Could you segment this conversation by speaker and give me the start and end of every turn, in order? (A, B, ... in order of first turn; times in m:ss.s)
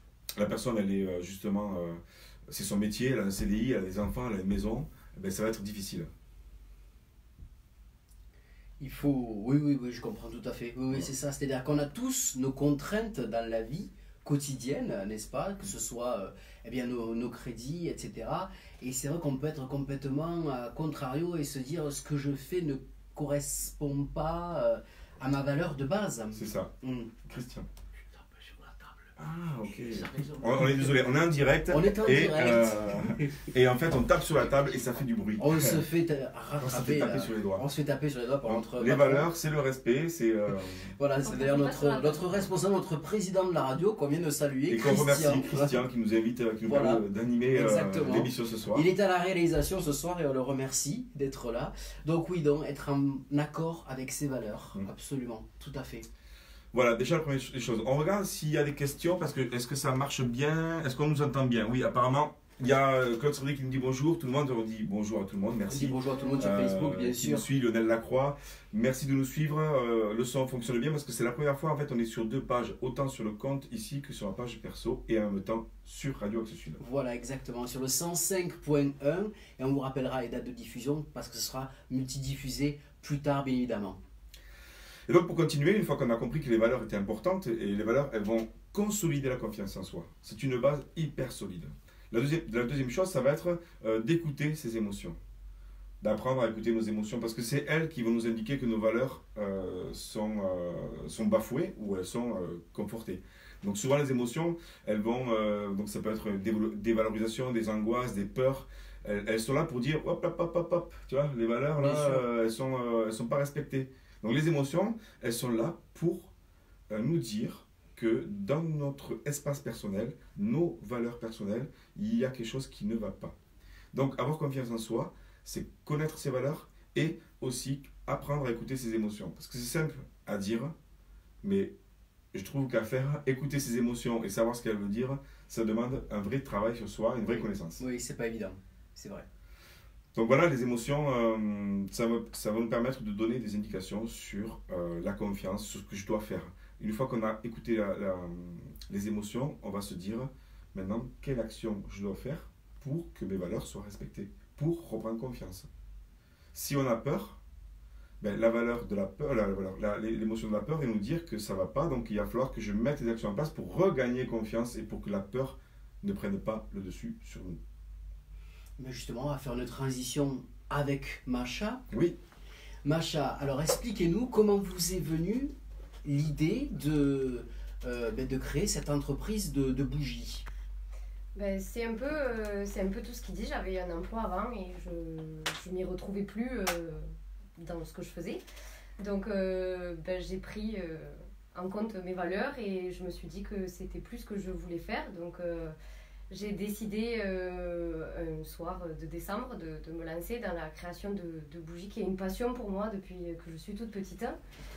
0:00.4-0:06.1 A
0:08.8-0:27.2 B
0:26.3-0:27.7 A
0:28.1-0:29.2 B
0:29.2-0:35.8 A
0:29.9-0:30.9 B
0:31.7-0:33.4 B
0:35.4-0:39.3 B
0:36.6-0:37.6 A
0:38.5-0:40.9 A
0:41.0-0:45.8 B
0:41.2-0:42.3 C
0:44.7-0:48.9 A
0:46.7-0:47.0 B
0:47.5-0:56.1 B
0:56.7-1:16.8 A
1:05.7-1:07.4 B
1:16.8-1:24.0 B
1:25.1-1:35.2 A
1:36.0-1:56.3 A
1:51.8-1:52.2 B
1:56.9-2:03.4 A
2:03.9-2:10.8 A
2:11.4-2:11.7 A
2:12.3-2:17.8 A
2:17.3-2:19.3 B
2:20.2-2:35.7 A
2:36.5-2:37.4 A
2:38.2-2:47.6 A
2:48.8-2:51.8 B
2:51.9-2:52.2 A
2:52.8-2:55.5 B
2:56.0-3:00.4 B
3:01.4-3:08.4 C
3:09.0-3:15.8 C
3:16.3-3:24.4 C